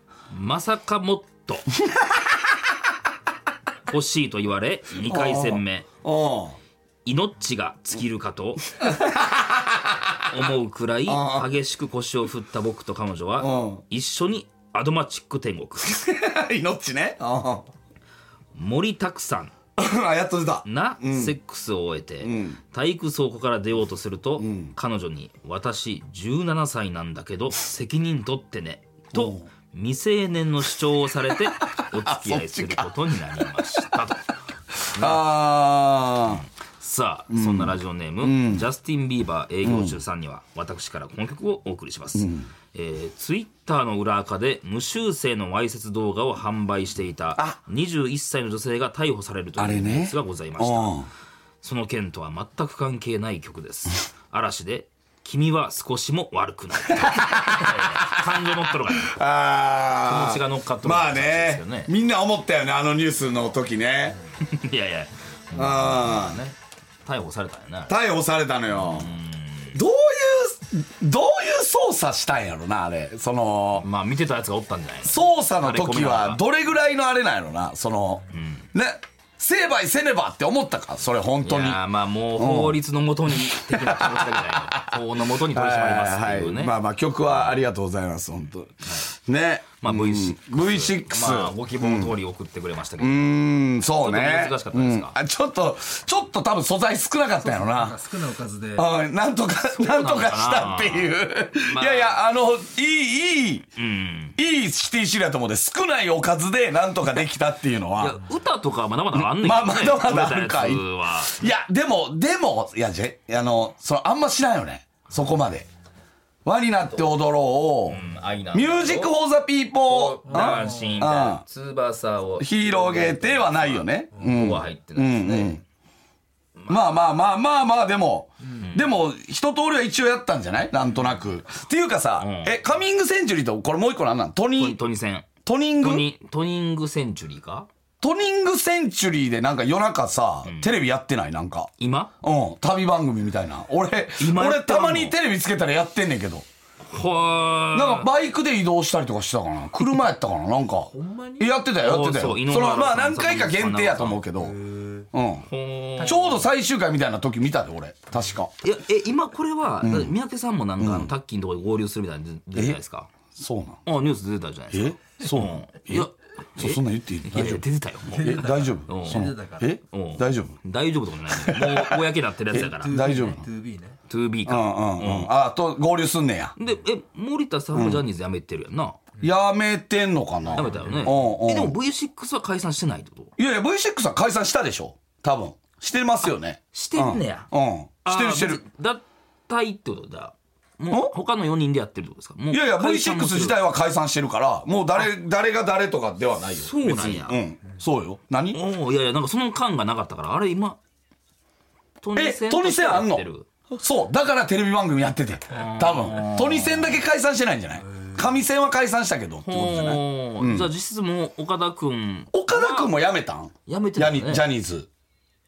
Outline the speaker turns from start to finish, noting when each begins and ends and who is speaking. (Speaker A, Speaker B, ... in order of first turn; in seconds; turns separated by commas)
Speaker A: 0.3-1.7, Speaker B: 1.8-2.3, Speaker A: 3.9-5.9, Speaker B: 5.0-6.6, Speaker A: 7.0-8.6, Speaker B: 8.8-10.1, Speaker A: 10.3-16.0, Speaker B: 11.1-11.5, Speaker B: 13.4-13.8, Speaker B: 15.8-17.7, Speaker A: 18.5-19.5, Speaker B: 19.8-21.4, Speaker A: 20.6-34.2, Speaker B: 22.2-22.6, Speaker B: 24.4-24.7, Speaker B: 29.1-29.4, Speaker B: 31.9-33.6, Speaker B: 34.9-36.4, Speaker A: 34.9-35.2, Speaker A: 36.3-51.0, Speaker B: 37.3-38.6, Speaker B: 39.6-40.0, Speaker B: 42.1-42.5, Speaker B: 49.6-51.1, Speaker A: 51.6-59.1, Speaker B: 56.9-64.2, Speaker A: 60.0-61.9, Speaker A: 64.4-68.0, Speaker B: 65.5-66.4, Speaker B: 67.9-69.1, Speaker A: 68.7-69.7, Speaker B: 69.7-73.9, Speaker A: 73.8-76.4, Speaker B: 75.0-81.8, Speaker A: 78.3-78.6, Speaker A: 81.4-86.7, Speaker B: 82.3-92.2, Speaker A: 89.8-93.3, Speaker B: 93.0-98.0, Speaker A: 94.0-95.2, Speaker C: 97.4-98.9, Speaker B: 98.8-103.7, Speaker A: 99.7-102.2, Speaker A: 103.8-104.3, Speaker B: 104.4-108.2, Speaker A: 108.0-111.4, Speaker B: 109.1-115.7, Speaker B: 116.4-121.4, Speaker A: 117.9-119.1, Speaker A: 119.8-125.6, Speaker C: 120.3-121.0, Speaker B: 122.4-125.6, Speaker A: 126.6-126.8, Speaker B: 126.7-134.8, Speaker A: 132.2-132.6, Speaker A: 134.6-137.7, Speaker B: 135.4-136.1, Speaker B: 138.0-141.7, Speaker A: 140.4-140.7, Speaker A: 141.8-142.1, Speaker B: 142.2-146.4, Speaker A: 144.2-145.2, Speaker A: 146.8-148.1, Speaker B: 147.7-154.5, Speaker C: 150.9-151.5, Speaker A: 151.8-154.2, Speaker C: 154.4-155.1, Speaker B: 155.1-155.5, Speaker A: 155.5-156.4, Speaker C: 156.0-156.3, Speaker B: 156.0-158.5, Speaker A: 158.6-163.1, Speaker B: 159.8-160.1, Speaker B: 160.8-161.1, Speaker B: 163.3-163.8, Speaker A: 163.8-169.3, Speaker B: 164.7-167.6, Speaker C: 168.1-169.8, Speaker B: 168.2-170.6, Speaker A: 169.9-173.3, Speaker B: 171.3-173.4, Speaker C: 172.5-174.0, Speaker A: 174.1-175.3, Speaker B: 174.4-176.5, Speaker A: 176.6-179.0, Speaker B: 177.7-178.0, Speaker B: 179.2-181.8, Speaker A: 180.5-183.3, Speaker C: 180.5-181.1, Speaker B: 183.4-188.6, Speaker A: 186.7-187.5, Speaker A: 188.0-193.6, Speaker B: 192.5-198.6, Speaker A: 196.6-197.4, Speaker A: 198.5-200.8, Speaker A: 202.0-203.5, Speaker B: 202.1-210.7, Speaker A: 205.5-207.0, Speaker A: 209.4-212.9, Speaker B: 212.3-214.9, Speaker A: 213.7-214.5